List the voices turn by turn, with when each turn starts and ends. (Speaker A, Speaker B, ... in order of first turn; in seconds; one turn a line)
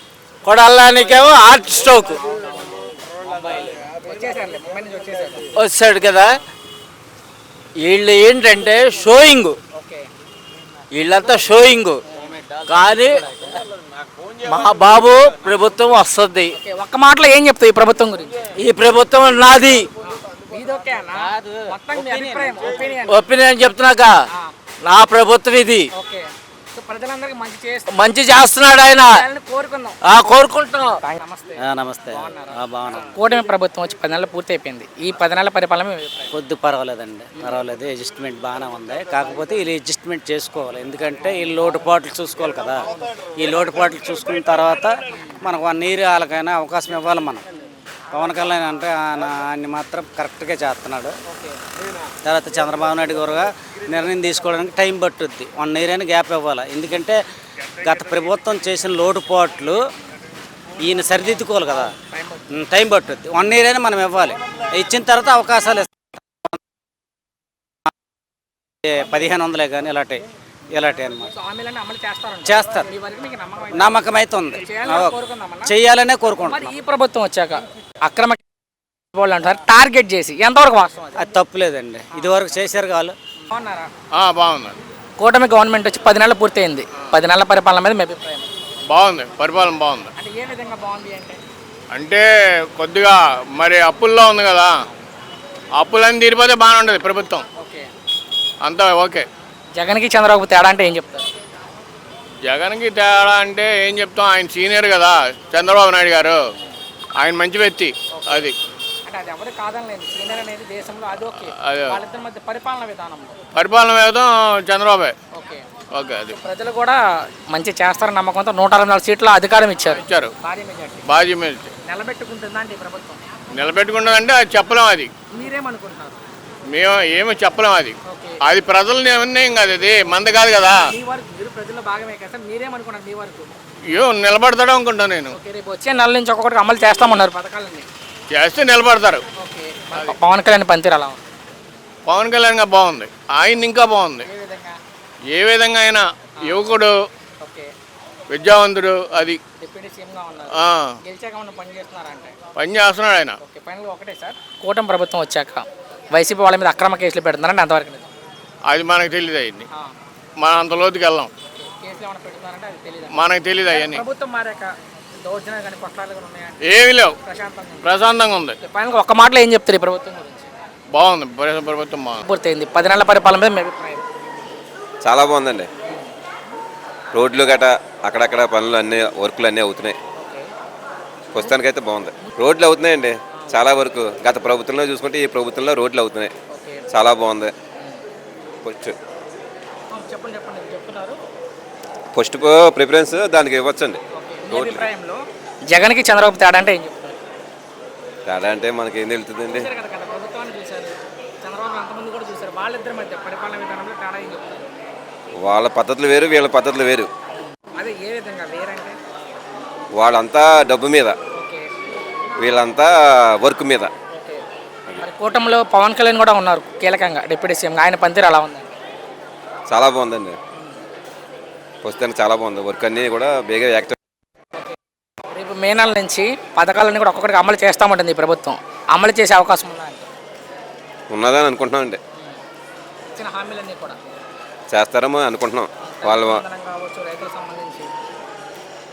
Speaker A: 0.4-2.2
Speaker B: 3.3-5.5
Speaker A: 5.6-6.3
Speaker A: 7.8-9.6
Speaker B: 9.7-10.1
Speaker A: 10.9-12.0
Speaker A: 12.6-13.2
Speaker A: 14.4-16.5
Speaker B: 16.6-18.5
Speaker A: 18.6-19.9
Speaker B: 20.0-23.2
Speaker C: 21.4-22.4
Speaker A: 23.1-24.1
Speaker A: 24.8-25.9
Speaker B: 25.9-27.9
Speaker A: 27.9-29.1
Speaker B: 29.1-30.0
Speaker A: 30.1-31.0
Speaker B: 31.0-36.4
Speaker C: 31.6-33.1
Speaker C: 36.3-47.4
Speaker B: 47.5-47.8
Speaker C: 48.1-51.1
Speaker B: 51.3-51.6
Speaker C: 52.2-57.2
Speaker C: 57.8-59.8
Speaker C: 60.8-61.9
Speaker B: 62.1-62.4
Speaker C: 62.5-66.6
Speaker C: 68.8-71.3
Speaker B: 71.3-74.0
Speaker C: 72.4-72.9
Speaker C: 73.8-76.7
Speaker B: 74.6-75.7
Speaker B: 76.4-78.4
Speaker B: 79.1-81.2
Speaker C: 81.2-83.2
Speaker B: 83.4-83.9
Speaker D: 84.1-84.8
Speaker B: 85.2-88.5
Speaker D: 88.9-90.1
Speaker B: 90.2-91.4
Speaker D: 91.9-94.7
Speaker D: 95.8-97.5
Speaker B: 97.5-97.9
Speaker D: 98.6-99.3
Speaker B: 99.7-101.3
Speaker D: 102.5-106.4
Speaker D: 107.2-108.5
Speaker B: 108.1-108.5
Speaker B: 109.0-113.4
Speaker D: 111.6-112.0
Speaker D: 113.5-115.1
Speaker B: 115.3-115.6
Speaker D: 115.9-116.3
Speaker B: 116.3-121.1
Speaker D: 120.0-120.3
Speaker D: 121.1-121.7
Speaker B: 121.8-123.2
Speaker D: 123.5-125.1
Speaker B: 125.3-126.2
Speaker D: 126.7-130.8
Speaker B: 128.0-128.4
Speaker B: 130.7-133.5
Speaker D: 133.9-135.4
Speaker B: 135.3-137.9
Speaker D: 138.3-139.2
Speaker B: 139.3-141.2
Speaker D: 142.1-144.3
Speaker B: 144.2-144.8
Speaker D: 145.3-146.9
Speaker B: 146.4-146.7
Speaker B: 147.4-147.7
Speaker D: 148.3-149.4
Speaker B: 149.6-152.3
Speaker D: 150.6-151.0
Speaker D: 152.6-153.4
Speaker B: 153.4-158.1
Speaker D: 158.7-159.7
Speaker D: 160.4-161.3
Speaker B: 161.5-166.6
Speaker D: 163.1-164.0
Speaker D: 166.6-167.2
Speaker B: 167.2-170.5
Speaker D: 167.8-168.6
Speaker D: 170.9-172.2
Speaker B: 172.2-174.1
Speaker E: 175.0-175.7
Speaker B: 175.8-176.1
Speaker E: 177.1-180.0
Speaker B: 180.2-180.5
Speaker E: 181.3-186.3
Speaker B: 183.3-183.6
Speaker B: 186.5-186.9
Speaker E: 186.9-187.5
Speaker E: 188.6-188.9
Speaker B: 189.9-191.2
Speaker E: 192.1-194.9
Speaker B: 194.1-197.2
Speaker E: 198.2-199.7
Speaker B: 199.5-204.8
Speaker E: 205.4-207.1
Speaker B: 207.8-208.9
Speaker E: 209.9-211.2
Speaker B: 211.3-211.7
Speaker E: 212.4-213.9
Speaker B: 214.1-214.4
Speaker B: 215.0-218.7
Speaker E: 219.7-220.4
Speaker E: 221.8-223.9
Speaker B: 225.3-230.1
Speaker E: 231.1-232.0
Speaker B: 233.1-234.0
Speaker E: 234.7-236.4
Speaker B: 235.9-237.9